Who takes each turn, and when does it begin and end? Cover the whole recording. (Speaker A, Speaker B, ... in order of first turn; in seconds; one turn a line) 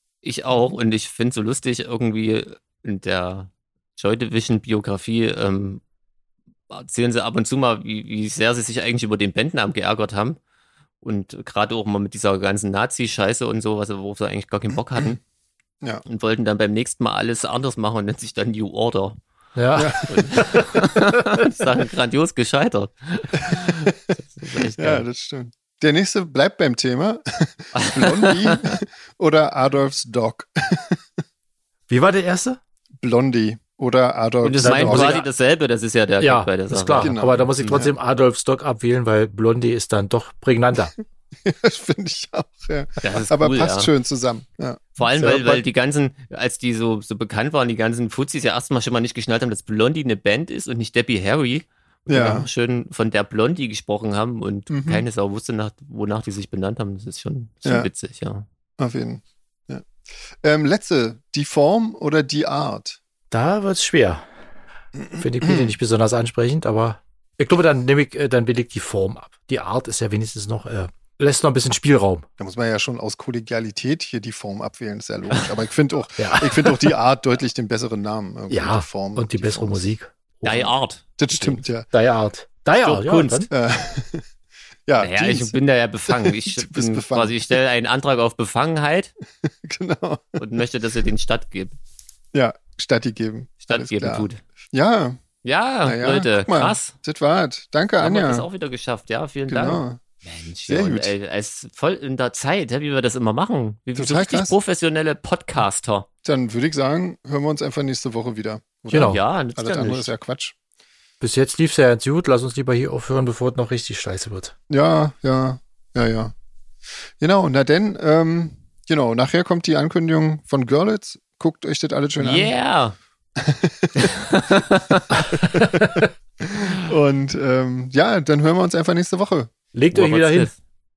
Speaker A: 0.2-5.8
Speaker A: 6.7-10.4
Speaker A: 11.0-15.2
Speaker A: 16.0-19.2
Speaker B: 19.6-21.1
Speaker C: 19.8-20.6
Speaker A: 20.1-25.1
Speaker C: 23.4-23.9
Speaker C: 24.6-31.0
Speaker A: 27.7-28.8
Speaker B: 31.9-32.6
Speaker C: 33.0-35.2
Speaker A: 34.4-37.8
Speaker B: 34.6-35.2
Speaker B: 36.2-40.9
Speaker C: 37.0-37.9
Speaker C: 41.4-45.0
Speaker A: 43.0-43.9
Speaker A: 45.0-58.5
Speaker B: 45.0-45.6
Speaker C: 52.1-52.5
Speaker C: 54.7-55.0
Speaker C: 58.8-59.9
Speaker C: 60.4-63.0
Speaker B: 63.3-64.2
Speaker C: 65.0-65.7
Speaker B: 65.2-72.2
Speaker C: 72.4-79.9
Speaker B: 76.2-76.9
Speaker B: 78.5-80.7
Speaker A: 80.4-81.6
Speaker C: 81.2-81.9
Speaker B: 81.9-83.5
Speaker A: 82.8-83.5
Speaker C: 83.5-84.2
Speaker C: 84.9-85.5
Speaker A: 85.0-89.1
Speaker C: 86.1-87.6
Speaker C: 89.4-90.4
Speaker A: 90.4-91.8
Speaker C: 92.3-95.2
Speaker A: 93.6-94.4
Speaker A: 95.4-96.9
Speaker C: 95.8-98.5
Speaker A: 98.0-106.1
Speaker C: 99.5-100.0
Speaker C: 100.7-101.1
Speaker C: 103.9-104.5
Speaker C: 106.2-110.5
Speaker B: 108.9-109.2
Speaker A: 108.9-110.1
Speaker B: 111.2-114.5
Speaker C: 114.7-116.3
Speaker C: 117.2-122.5
Speaker A: 122.2-123.0
Speaker C: 123.4-124.0
Speaker A: 124.0-125.2
Speaker C: 125.5-129.5
Speaker B: 125.8-126.0
Speaker B: 129.7-130.5
Speaker A: 129.9-130.6